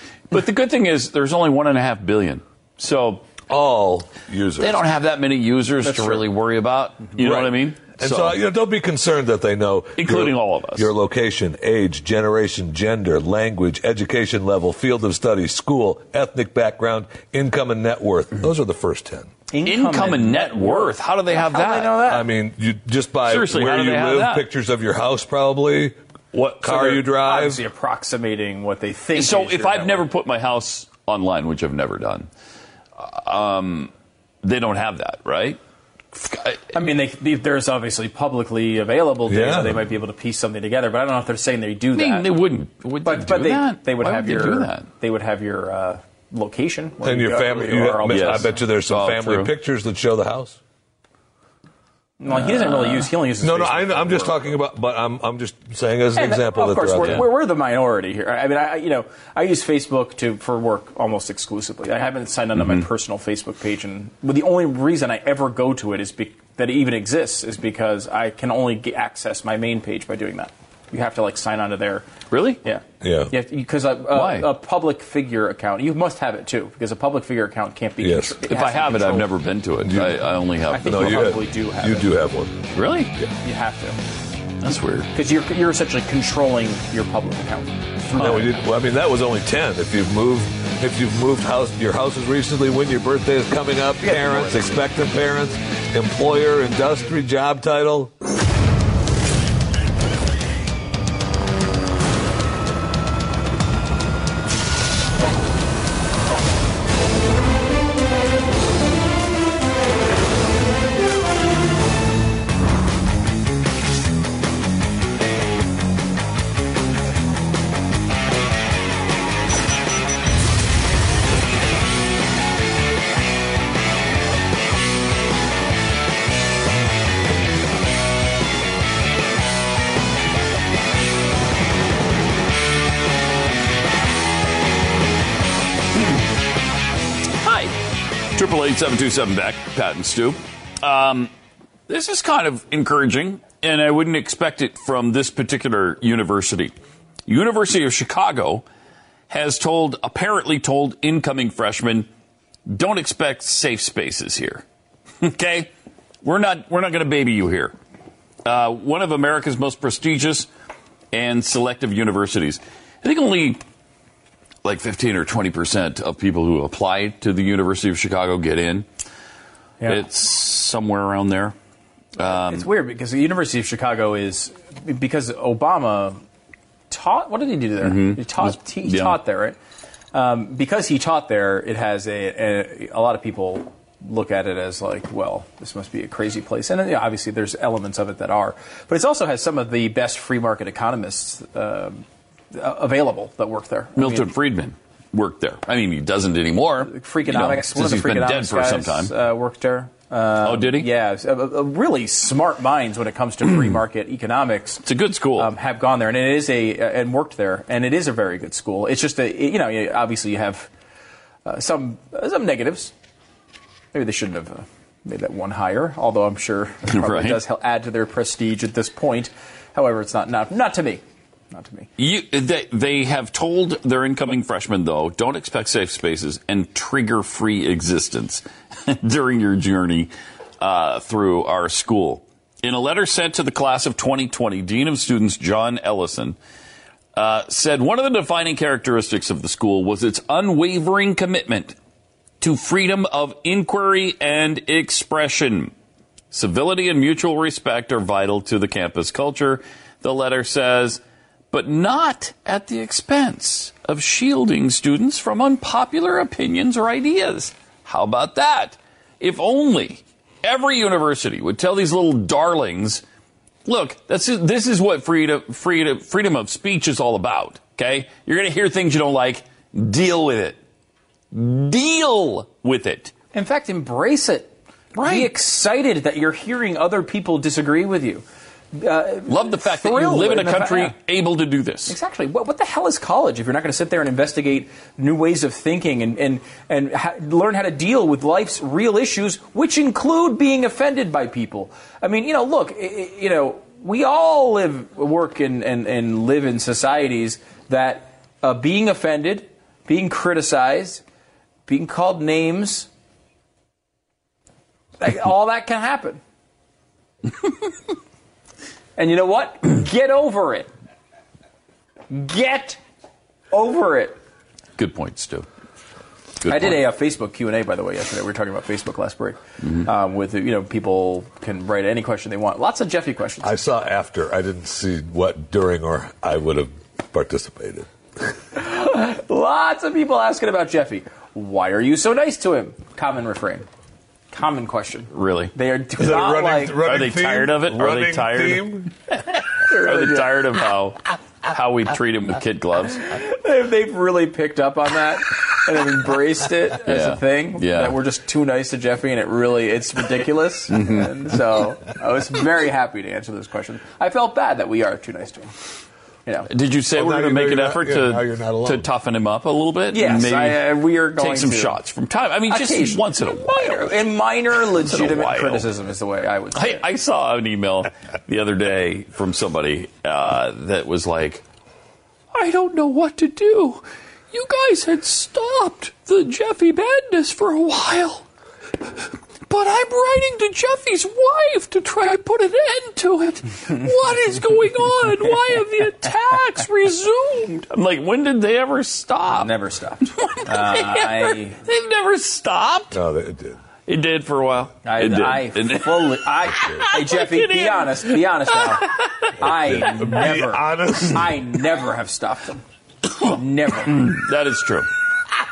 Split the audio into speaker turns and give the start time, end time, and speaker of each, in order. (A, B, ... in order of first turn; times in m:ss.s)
0:00.3-0:03.3 A
0:03.5-0:04.8 B
0:04.6-0:08.4 A
0:05.8-0:06.2 C
0:07.2-0:19.3 B
0:10.0-0:10.9 A
0:19.5-0:22.3 C
0:19.6-0:22.0 A
0:22.0-0:27.6 B
0:23.3-0:24.5 A
0:26.6-0:30.1 C
0:29.1-0:32.3 A
0:33.0-0:33.9 A
0:34.4-0:35.6 A
0:36.1-0:36.7 A
0:36.7-0:42.3 C
0:39.3-0:39.8 B
0:41.9-0:44.9 A
0:43.0-0:48.6 C
0:47.0-0:50.6 B
0:48.1-0:49.5 A
0:52.2-0:54.4 C
0:52.3-0:53.1 A
0:53.4-0:57.3 B
0:56.2-1:12.1 C
1:02.6-1:02.8 A
1:12.3-1:12.6 A
1:12.6-1:19.3 C
1:13.0-1:13.3 B
1:14.1-1:14.5 A
1:18.0-1:18.4 B
1:18.5-1:21.3 A
1:19.8-1:20.2 B
1:20.7-1:22.1 C
1:20.8-1:23.3 B
1:22.7-1:23.1 A
1:23.4-1:24.0 C
1:24.6-1:25.1 A
1:25.1-1:28.4 C
1:28.1-1:38.1 B
1:28.2-1:28.5 A
1:34.0-1:34.8 C
2:17.4-2:17.7 A
2:18.4-2:21.3 A
2:21.9-2:26.7 A
2:27.3-2:28.6 A
2:29.3-2:32.1 A
2:32.7-2:34.6 A
2:35.2-2:35.7 A
2:36.2-2:37.7 A
2:38.4-2:40.5 A
2:41.1-2:43.6 A
2:44.6-2:48.9 A
2:49.8-2:51.6 A
2:52.2-2:52.7 A
2:52.2-2:56.2 C
2:56.9-2:59.6 C
2:57.8-2:59.2 A
3:00.1-3:14.3 C
3:14.0-3:19.1 A
3:16.8-3:24.8 C
3:20.4-3:20.9 A
3:24.9-3:25.5 A
3:25.4-3:30.7 C
3:31.4-3:32.9 C
3:33.9-3:41.9 C
3:36.9-3:37.4 A
3:42.0-3:56.4 A
3:57.2-4:01.8 A
4:02.4-4:05.7 A
4:06.3-4:23.0 A
4:23.6-4:30.6 A
4:31.3-4:33.1 A
4:33.3-4:41.0 C
4:35.0-4:35.3 A
4:39.3-4:42.0 A
4:41.9-5:01.0 C
5:01.7-5:02.9 C
5:05.0-5:06.2 C
5:09.0-5:10.7 C
5:12.1-5:12.8 C
5:13.5-5:14.2 C
5:14.8-5:15.5 A
5:16.4-5:16.8 A
5:16.5-5:23.6 C
5:23.4-5:27.9 B
5:28.6-5:33.7 C
5:34.3-5:36.8 C
5:35.1-5:35.5 A
5:36.0-5:38.9 B
5:36.8-5:38.9 A
5:39.7-5:40.3 C
5:39.7-5:43.1 A
5:43.1-5:55.5 C
5:46.8-5:48.0 A
5:50.7-5:51.1 A
5:56.5-6:04.0 A
5:56.9-5:58.9 B
5:59.9-6:01.8 C
6:02.5-6:06.8 C
6:04.7-6:05.7 A
6:06.6-6:11.4 A
6:12.3-6:18.2 A
6:19.5-6:29.5 A
6:29.3-6:31.6 C
6:30.2-6:33.0 A
6:32.9-6:33.6 B
6:33.9-6:39.1 A
6:34.8-6:42.6 C
6:39.4-6:41.4 B
6:43.2-6:44.1 C
6:43.9-6:44.9 A